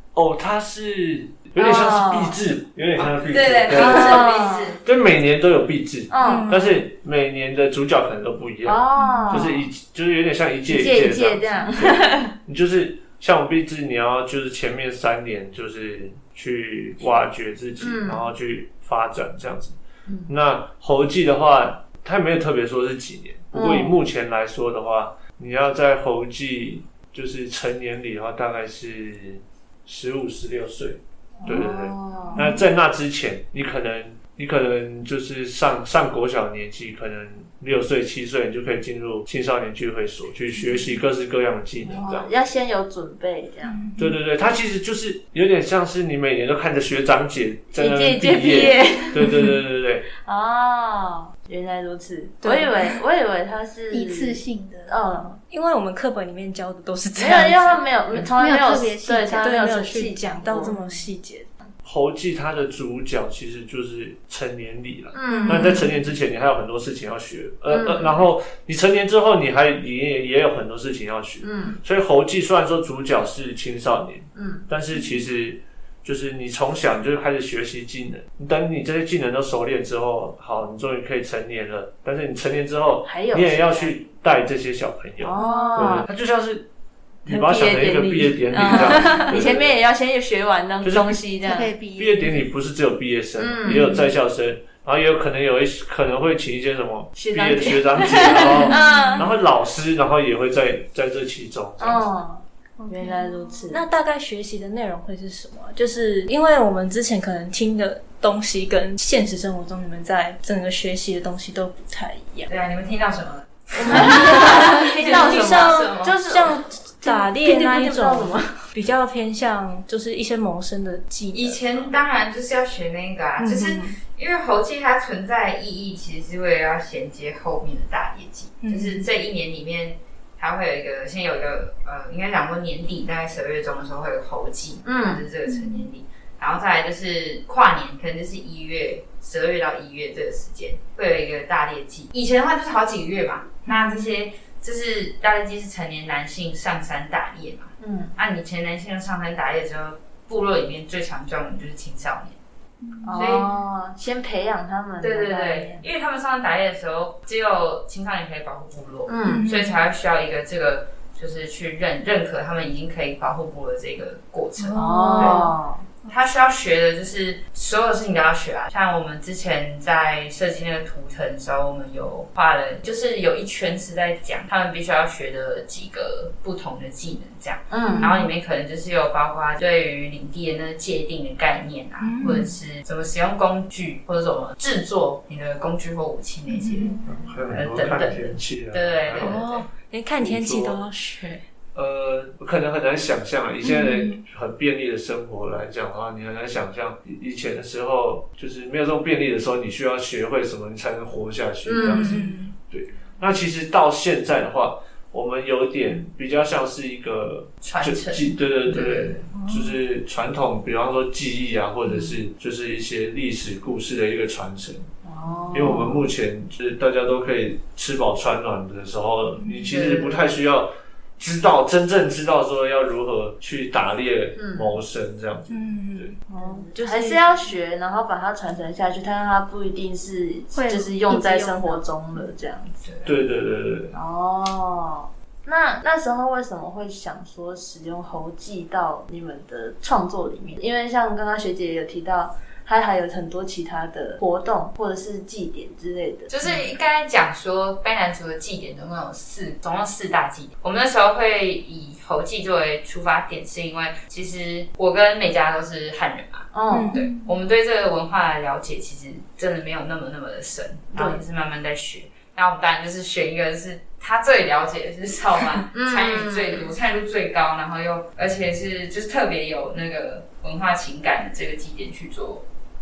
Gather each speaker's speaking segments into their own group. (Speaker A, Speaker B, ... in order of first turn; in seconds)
Speaker A: 0.1-4.3, 4.8-42.3, 44.0-50.1, 61.8-86.7, 87.2-89.8, 90.8-91.2, 91.9-102.1, 187.0-189.4, 190.2-190.8, 191.7-214.9, 215.5-226.1, 233.0-233.9
Speaker B: 1.6-2.4, 3.7-4.8, 6.1-6.5, 8.6-9.6, 10.7-12.3, 17.8-18.3, 23.5-24.0, 31.4-32.5, 41.8-43.8, 47.7-49.2, 50.2-55.4, 57.1-60.9, 65.1-65.8, 67.7-68.2, 71.4-71.8, 74.3-74.7, 83.0-84.0, 85.2-86.1, 87.2-91.7, 93.4-93.9, 97.2-99.3, 101.8-103.8, 113.8-118.6, 134.8-135.2, 147.8-148.1, 153.0-155.8, 159.1-159.4, 164.7-165.8, 177.7-178.1, 201.7-202.3, 215.0-216.0, 224.3-224.7, 226.3-232.8, 233.9-246.6, 256.5-257.0, 260.9-261.2, 265.7-266.7
Speaker C: 3.0-4.8, 112.5-116.2, 121.3-152.4, 153.1-153.5, 155.0-165.5, 166.1-186.9, 187.5-189.7, 207.6-209.2, 219.5-220.2, 232.8-233.1, 246.3-272.4
Speaker D: 6.2-6.8, 8.9-9.5, 43.6-44.1, 49.2-49.5, 52.4-53.0, 55.4-57.8, 59.4-61.5, 65.3-66.0, 85.4-86.0, 93.7-94.1, 98.4-99.3, 103.7-112.5, 113.9-122.0, 123.4-124.0, 128.6-129.0, 143.7-144.1, 159.2-159.8, 164.6-165.5, 177.9-178.3, 182.0-182.5, 186.5-187.0, 189.2-191.4, 193.6-194.2, 201.7-202.5, 209.3-209.6, 225.5-227.3, 256.7-257.1
Speaker E: 53.9-55.0, 58.4-59.5, 85.4-85.7, 91.4-92.5, 102.8-103.7, 152.8-153.2, 230.5-231.8, 257.0-257.2